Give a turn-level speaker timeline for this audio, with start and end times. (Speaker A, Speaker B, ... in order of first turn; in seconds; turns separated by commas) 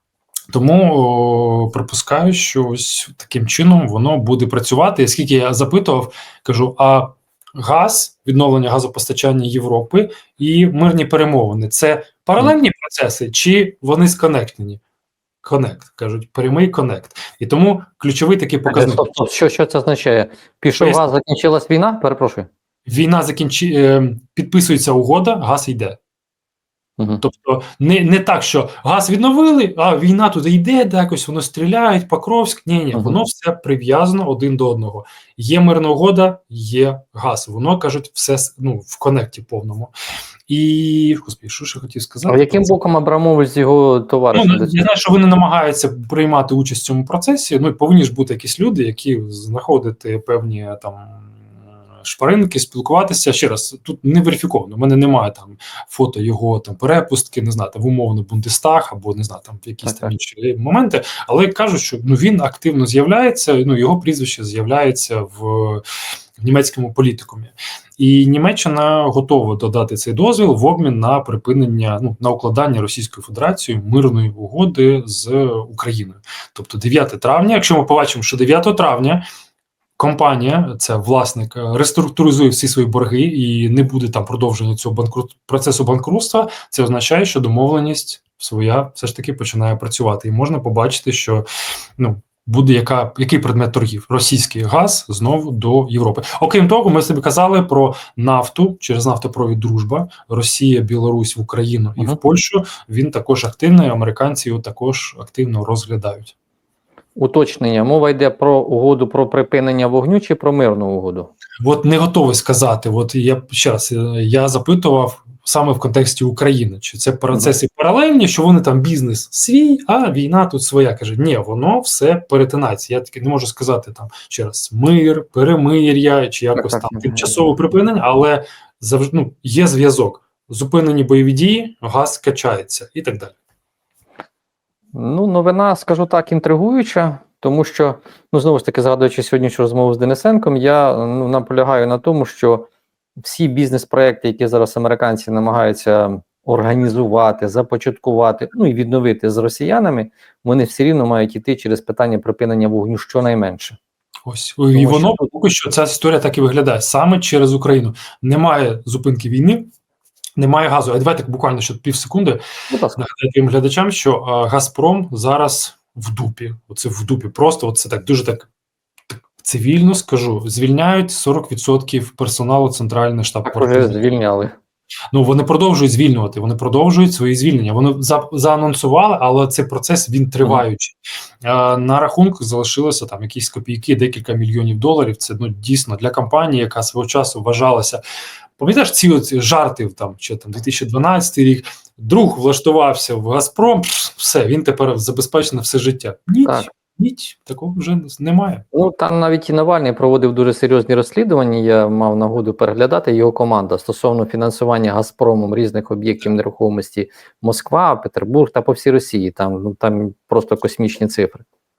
Speaker A: 0.5-14.8, Speaker A: 15.4-19.1, Speaker B: 18.7-22.5, Speaker A: 20.8-21.1, Speaker A: 22.9-26.0, Speaker A: 27.2-39.9, Speaker A: 40.5-42.8, Speaker B: 42.3-44.9, Speaker A: 44.3-51.3, Speaker A: 52.0-65.8, Speaker B: 59.8-60.1, Speaker A: 66.4-79.2, Speaker A: 80.0-91.5, Speaker A: 92.0-106.3, Speaker B: 107.2-111.3, Speaker A: 111.6-133.3, Speaker B: 126.6-127.2, Speaker B: 134.9-142.7, Speaker B: 143.2-153.8, Speaker A: 154.3-159.7, Speaker B: 154.7-155.2, Speaker A: 160.4-162.4, Speaker B: 162.7-163.0, Speaker A: 163.0-168.5, Speaker A: 169.4-174.1, Speaker B: 173.4-174.5, Speaker A: 175.1-188.0, Speaker A: 188.6-198.7, Speaker B: 198.7-211.4